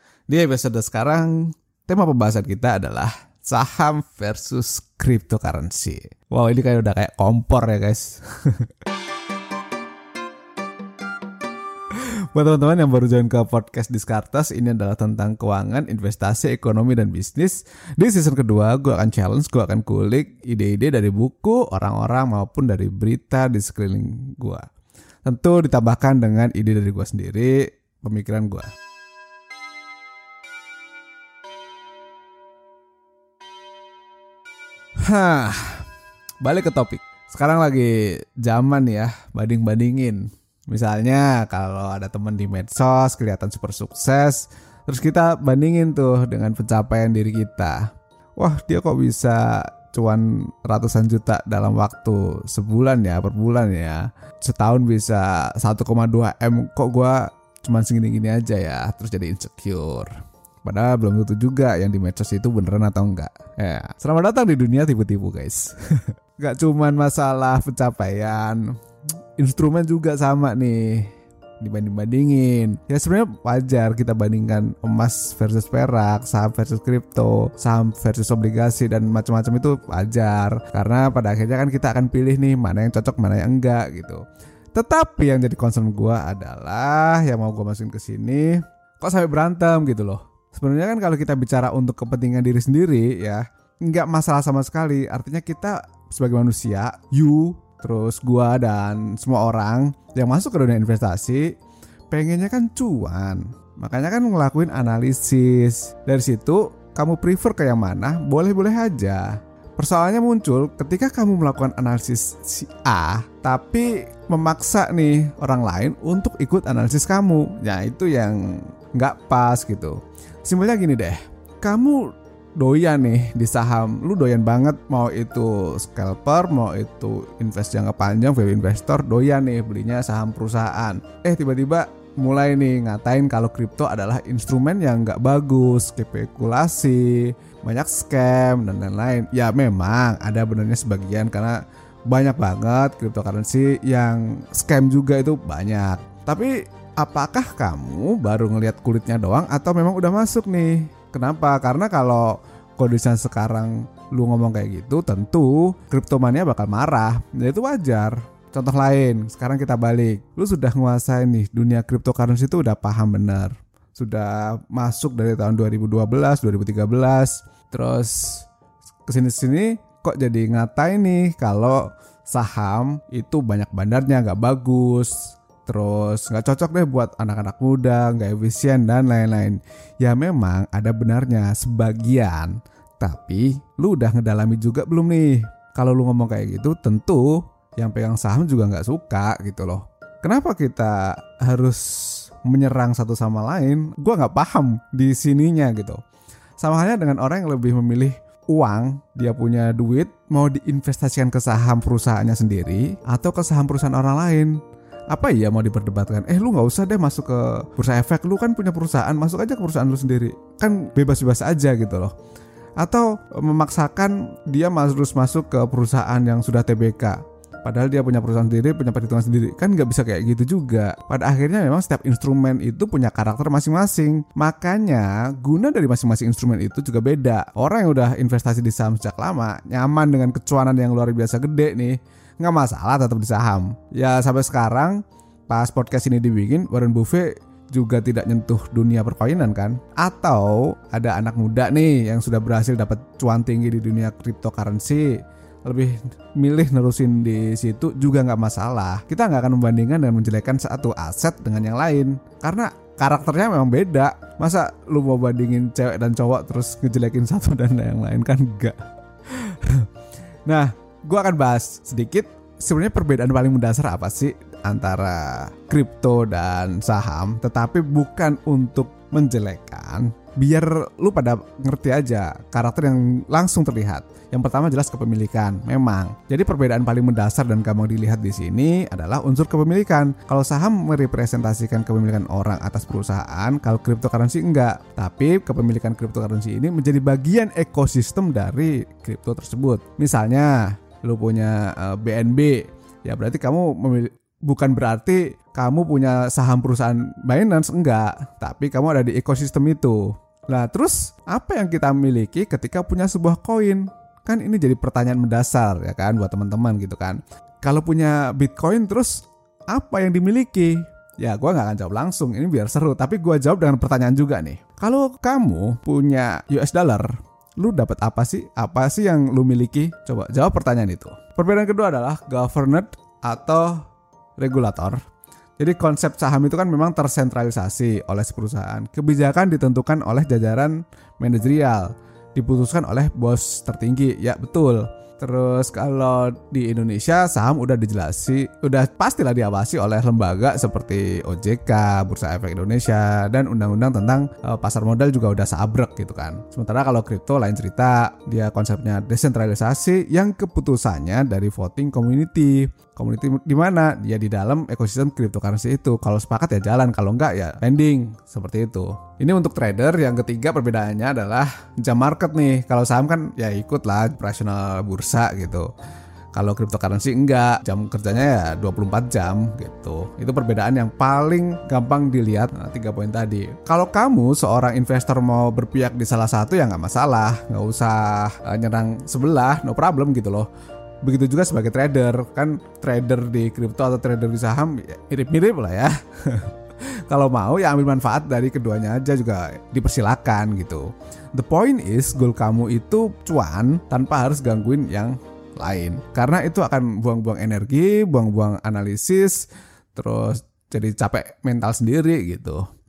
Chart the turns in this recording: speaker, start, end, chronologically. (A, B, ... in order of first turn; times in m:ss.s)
0:00.3-0:08.7 A
0:11.9-0:24.6 A
0:25.2-0:28.7 A
0:35.0-0:35.8 A
0:36.4-1:08.8 A
1:09.4-1:24.2 A
1:24.7-1:41.5 A
1:42.1-2:48.4 A
2:49.1-3:16.0 A
3:16.6-3:32.1 A
3:32.8-4:18.8 A
4:19.3-4:19.9 A
4:20.4-5:23.8 A
5:24.4-5:25.0 A
5:25.6-6:05.7 A
6:06.3-6:20.5 A
6:21.0-6:26.5 A
6:27.1-6:39.4 A
6:39.9-6:42.6 A